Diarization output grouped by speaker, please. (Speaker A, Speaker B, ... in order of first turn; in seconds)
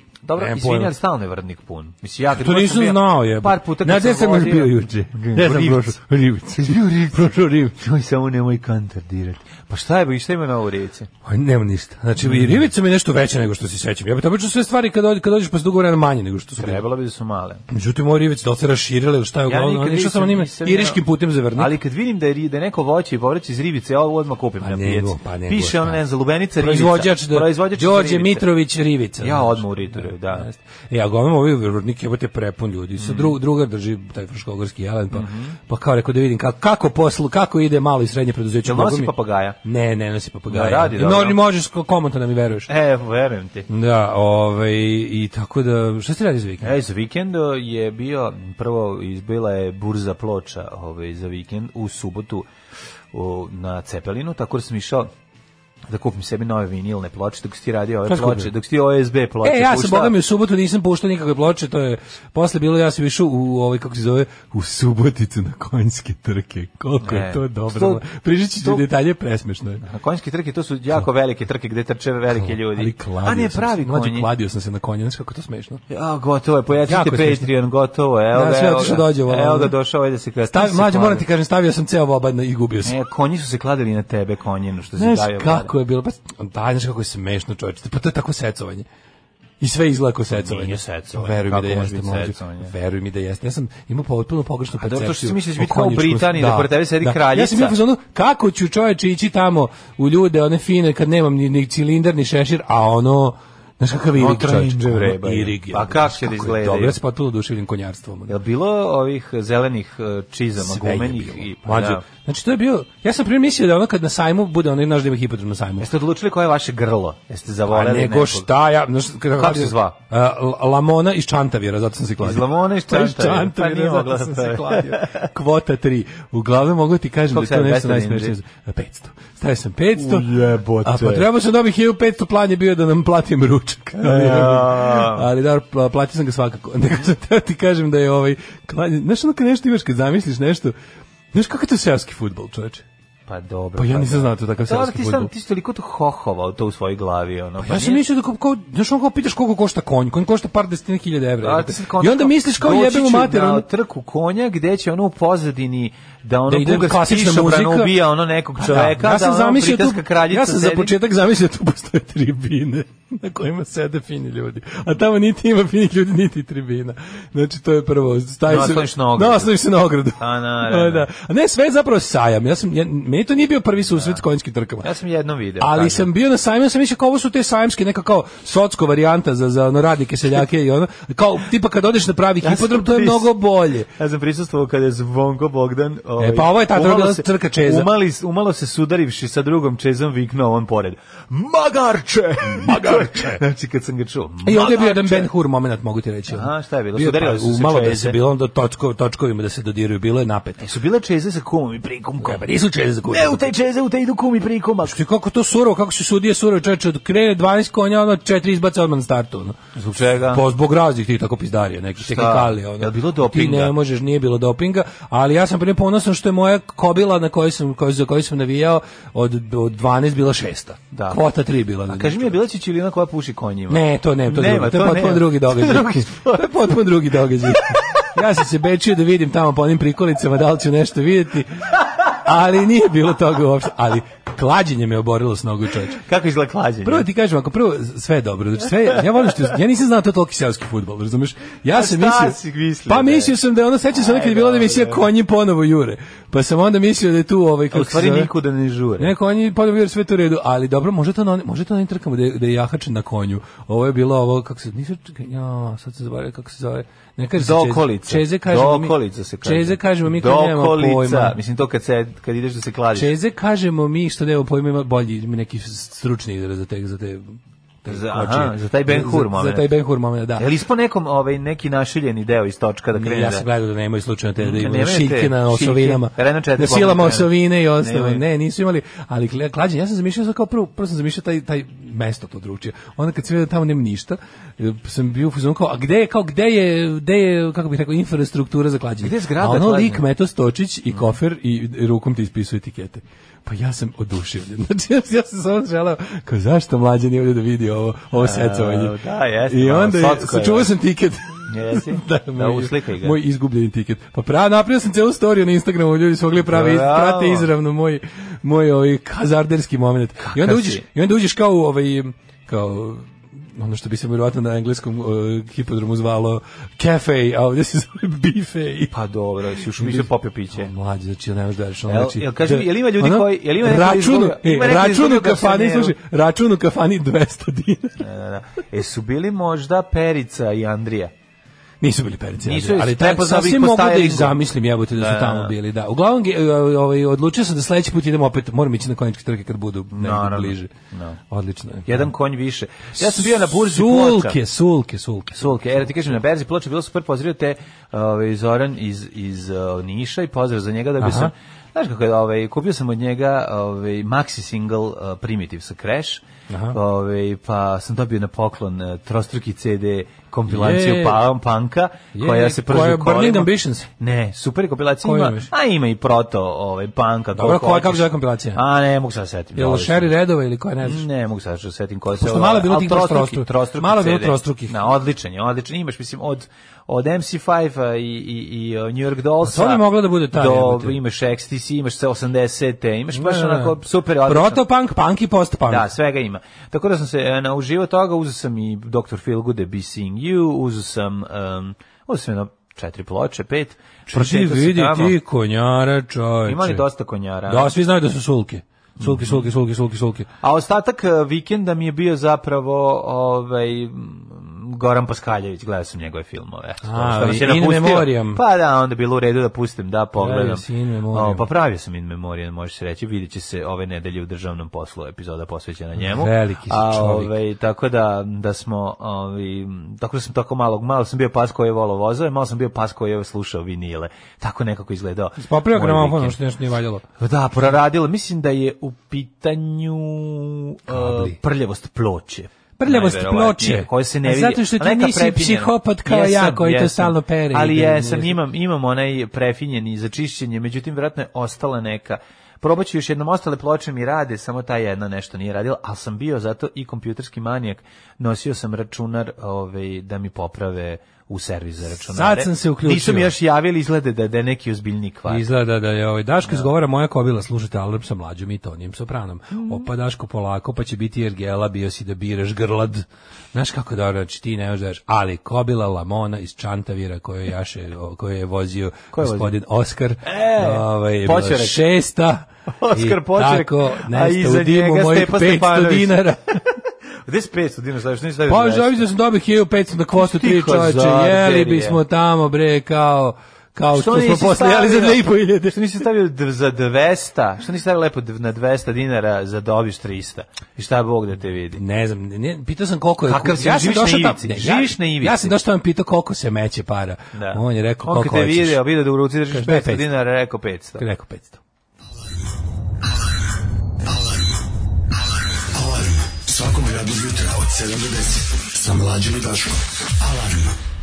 Speaker A: 0.2-6.0, 6.5-11.1, 12.2-12.6, 16.6-17.6, 19.5-21.0, 21.5-28.4, 29.2-30.5, 33.0-33.4, 35.1-35.6, 38.6-39.6, 40.5-41.4, 42.7-43.7, 46.6-52.5, 53.1-55.1, 55.9-60.1, 67.0-68.0, 69.8-74.3, 75.9-81.2, 82.8-85.7, 90.3-92.7, 94.8-97.8, 104.1-107.0, 108.3-112.0, 115.8-118.5, 119.3-120.0, 122.2-125.3, 127.3-128.3, 129.9-131.2, 133.9-135.2, 143.3-148.0, 151.4-160.9, 168.5-169.5, 170.2-171.1, 173.9-174.2, 174.8-176.1, 182.4-183.3, 183.9-195.3, 196.3-198.2, 200.6-202.4, 203.1-205.0, 209.8-210.4, 212.0-213.7, 220.9-221.2, 221.9-228.1, 236.0-237.0, 241.7-243.3, 243.9-245.0, 247.7-249.1, 257.4-263.1, 267.9-269.7, 270.4-273.4, 274.4-278.2, 289.0-290.0, 298.1-300.7, 301.4-303.2, 306.4-307.5, 310.2-310.8, 318.9-320.7, 321.9-325.9, 328.0-331.1, 332.4-334.4, 334.9-335.5, 339.9-341.2, 341.9-344.4, 345.4-370.1, 370.8-384.6, 385.6-395.2, 396.4-397.7, 399.0-399.5, 400.4-426.4, 427.2-455.4, 459.5-459.8, 469.1-469.5, 470.2-471.8, 472.7-476.2, 477.2-479.1, 480.1-482.0, 483.9-491.8, 493.2-495.6, 497.3-501.0
Speaker B: 0.3-0.9, 2.3-7.8, 11.2-16.8, 17.7-21.8, 24.6-26.0, 26.6-42.7, 43.7-46.7, 58.1-58.5, 59.4-69.8, 72.3-75.8, 76.8-77.5, 78.3-79.7, 80.5-83.0, 85.0-88.8, 89.6-108.3, 110.5-115.9, 117.7-140.8, 141.3-142.8, 143.8-145.3, 147.6-153.7, 156.5-158.0, 158.6-174.9, 175.6-183.9, 186.2-187.9, 192.4-193.4, 194.4-200.7, 202.2-203.5, 204.8-209.6, 210.3-222.4, 223.7-236.0, 236.8-248.3, 249.0-261.4, 262.9-270.5, 272.9-318.9, 319.6-328.0, 331.8-340.7, 341.3-342.1, 342.9-346.2, 351.0-351.3, 356.5-356.8, 360.5-361.2, 362.1-363.9, 365.0-365.5, 367.3-368.6, 369.5-371.1, 372.1-374.9, 379.4-381.0, 383.1-385.9, 394.1-396.8, 397.5-400.3, 406.8-408.4, 410.1-411.4, 416.0-417.4, 425.4-427.0, 430.9-431.4, 432.8-438.4, 452.0-453.3, 455.3-476.6, 478.5-486.1, 491.7-498.8, 499.5-500.1, 501.0-501.6
Speaker C: 504.0-504.6, 505.5-510.7